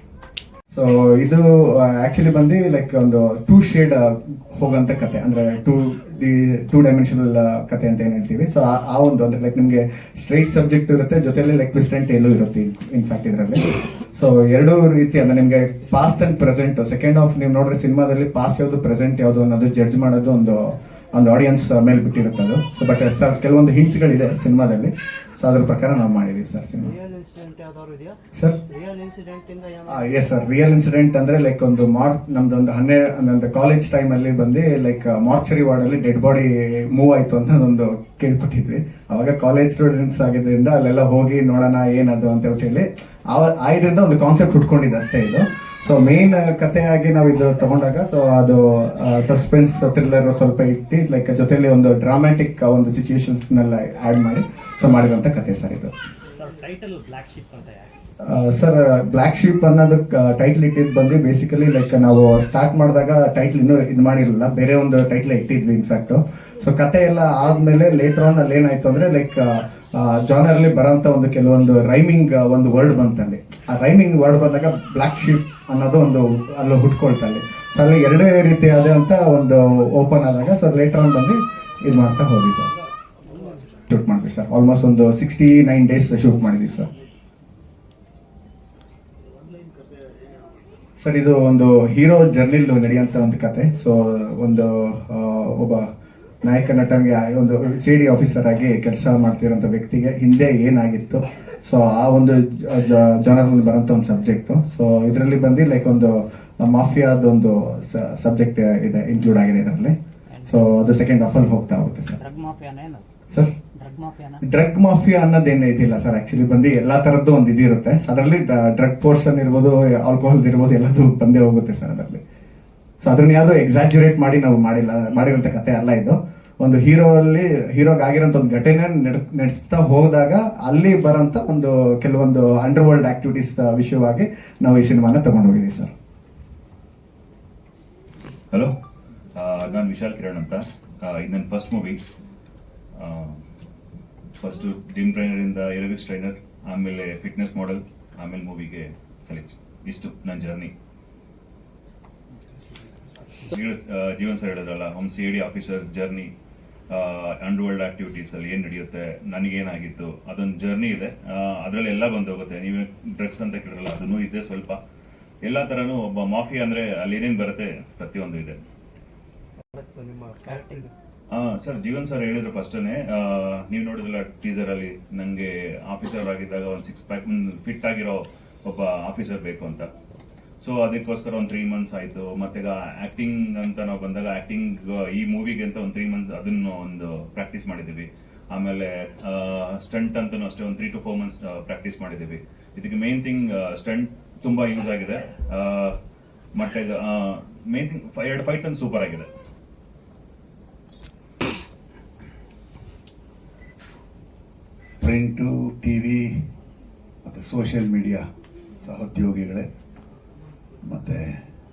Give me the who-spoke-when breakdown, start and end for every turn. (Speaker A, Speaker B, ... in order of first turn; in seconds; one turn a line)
Speaker A: 0.7-26.9
Speaker B: 26.8-28.1
Speaker B: 28.8-29.9
Speaker A: 29.9-55.9
Speaker B: 56.4-57.8
Speaker A: 58.2-82.7
Speaker A: 83.9-86.9
Speaker A: 91.0-95.9
Speaker A: 96.4-109.9
Speaker A: 110.5-112.2
Speaker B: 112.2-113.0
Speaker B: 113.8-114.4
Speaker A: 114.4-122.2
Speaker A: 123.0-135.9
Speaker C: 139.3-142.0
Speaker C: 143.0-143.4
Speaker C: 144.4-150.7
Speaker C: 153.5-156.3
Speaker C: 156.9-164.8
Speaker C: 165.4-168.6
Speaker C: 171.3-179.9
Speaker C: 180.6-196.0
Speaker C: 196.5-199.3
Speaker D: 205.0-206.2
Speaker D: 207.2-208.2
Speaker D: 208.8-209.7
Speaker D: 210.8-211.3